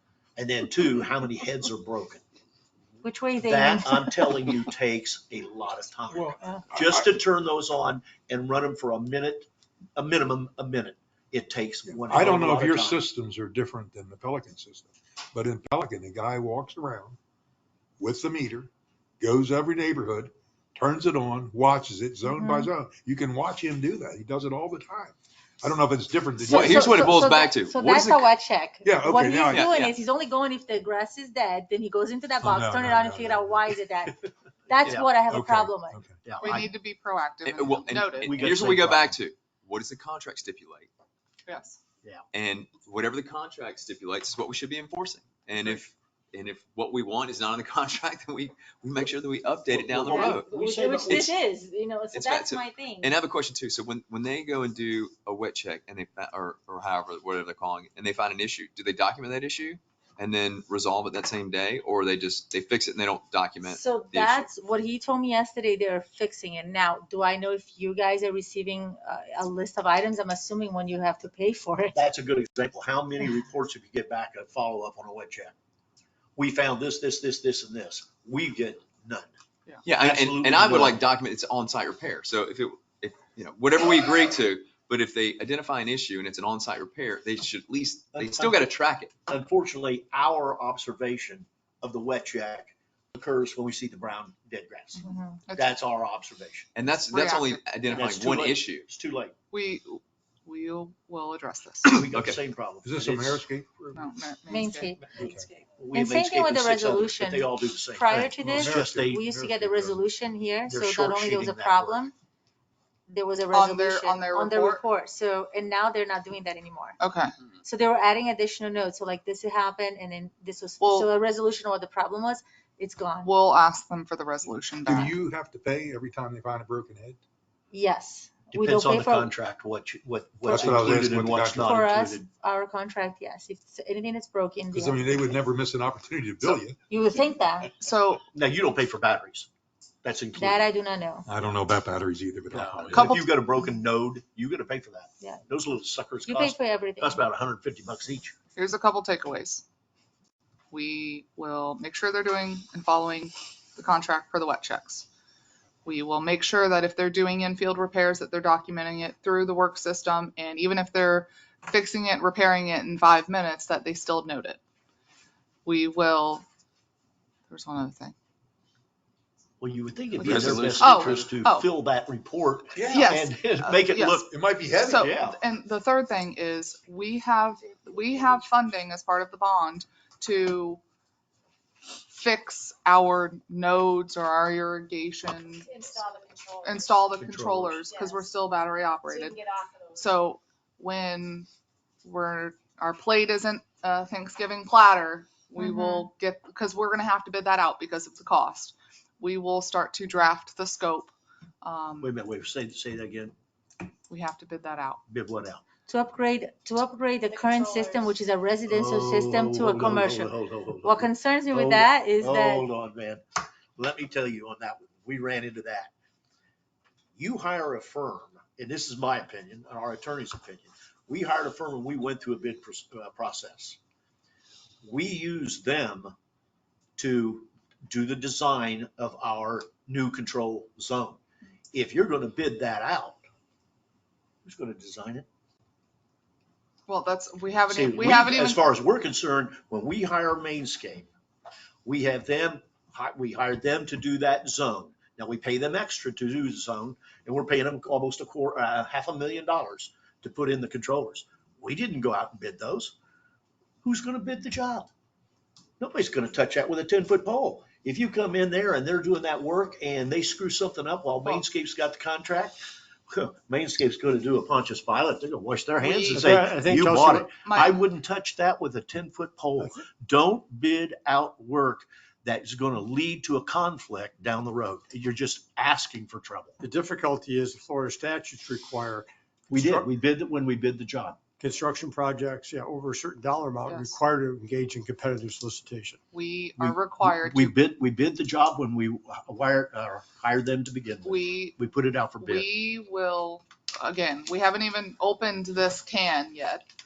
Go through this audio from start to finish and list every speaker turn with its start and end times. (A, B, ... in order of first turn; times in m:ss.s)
0:00.4-0:02.2 A
0:03.0-0:04.4 B
0:03.4-0:13.0 A
0:06.1-0:07.1 C
0:11.9-0:17.2 C
0:18.0-0:27.1 C
0:22.3-0:22.7 B
0:26.4-0:36.0 B
0:26.5-0:28.4 D
0:28.8-0:29.7 C
0:29.5-0:30.0 D
0:32.4-0:33.7 C
0:34.8-0:35.1 A
0:35.3-0:36.2 C
0:36.2-0:36.7 A
0:36.4-0:38.4 E
0:37.4-0:40.9 D
0:38.2-0:39.2 A
0:41.5-0:41.8 E
0:42.3-0:50.5 D
0:49.7-0:51.3 A
0:50.1-0:53.2 B
0:51.1-0:51.3 D
0:52.1-1:04.5 D
1:03.6-1:12.0 B
1:11.9-1:15.5 A
1:16.4-1:19.3 A
1:19.8-1:29.1 D
1:20.0-1:21.0 A
1:28.1-1:28.7 A
1:29.3-1:36.7 A
1:35.0-1:35.4 B
1:35.5-1:35.8 E
1:36.8-1:38.8 D
1:36.9-1:38.0 E
1:37.9-1:39.3 A
1:39.5-1:42.0 E
1:41.8-1:43.4 A
1:42.0-1:42.4 D
1:42.8-1:44.0 C
1:43.9-1:44.9 E
1:44.5-1:52.1 B
1:45.1-1:50.0 A
1:45.2-1:45.5 C
1:48.4-1:49.6 C
1:50.6-1:52.1 A
1:53.1-1:57.0 B
1:53.5-1:54.8 E
1:57.0-1:57.3 E
1:57.6-2:03.3 B
2:00.8-2:01.1 E
2:03.2-2:05.1 E
2:04.8-2:07.2 C
2:07.7-2:09.3 B
2:08.5-2:12.3 A
2:10.4-2:12.0 C
2:10.5-2:10.8 B
2:11.6-2:15.4 B
2:14.7-2:16.8 C
2:16.9-2:17.7 B
2:17.8-2:18.2 E
2:18.3-2:19.5 A
2:20.0-2:20.7 A
2:20.4-2:21.2 B
2:21.2-2:23.2 C
2:22.5-2:28.3 A
2:22.9-2:23.3 E
2:26.2-2:27.2 B
2:28.6-2:29.6 E
2:30.7-2:35.0 E
2:35.8-2:44.6 E
2:45.6-2:46.4 E
2:47.5-2:48.1 E
2:49.6-2:54.3 A
2:50.2-2:51.7 E
2:50.2-2:51.3 D
2:52.8-2:53.1 C
2:52.9-2:54.3 E
2:54.3-2:55.1 C
2:54.8-3:00.8 E
2:54.9-2:55.4 A
3:02.1-3:06.0 E
3:05.7-3:07.0 F
3:06.6-3:09.4 E
3:07.1-3:07.8 A
3:07.9-3:08.3 F
3:09.1-3:10.0 F
3:09.9-3:11.5 E
3:12.0-3:22.1 E
3:15.6-3:16.1 B
3:22.0-3:23.3 A
3:24.1-3:25.0 E
3:25.1-3:25.6 A
3:25.9-3:30.3 B
3:27.3-3:28.1 F
3:28.7-3:33.2 A
3:30.8-3:32.7 B
3:33.8-3:35.9 A
3:37.2-3:43.8 A
3:44.8-3:46.1 A
3:47.0-3:51.2 A
3:51.7-3:53.2 A
3:54.4-3:55.2 A
3:56.9-3:58.6 E
3:57.7-4:01.1 A
4:01.8-4:12.9 A
4:13.8-4:14.9 A
4:15.8-4:36.6 A
4:25.8-4:26.4 E
4:26.1-4:27.3 G
4:27.4-4:27.7 E
4:36.6-4:39.8 G
4:39.5-4:41.2 A
4:41.4-4:46.0 G
4:43.6-4:44.0 E
4:46.1-4:47.6 E
4:46.6-4:52.5 A
4:51.0-4:51.6 E
4:52.2-4:56.6 E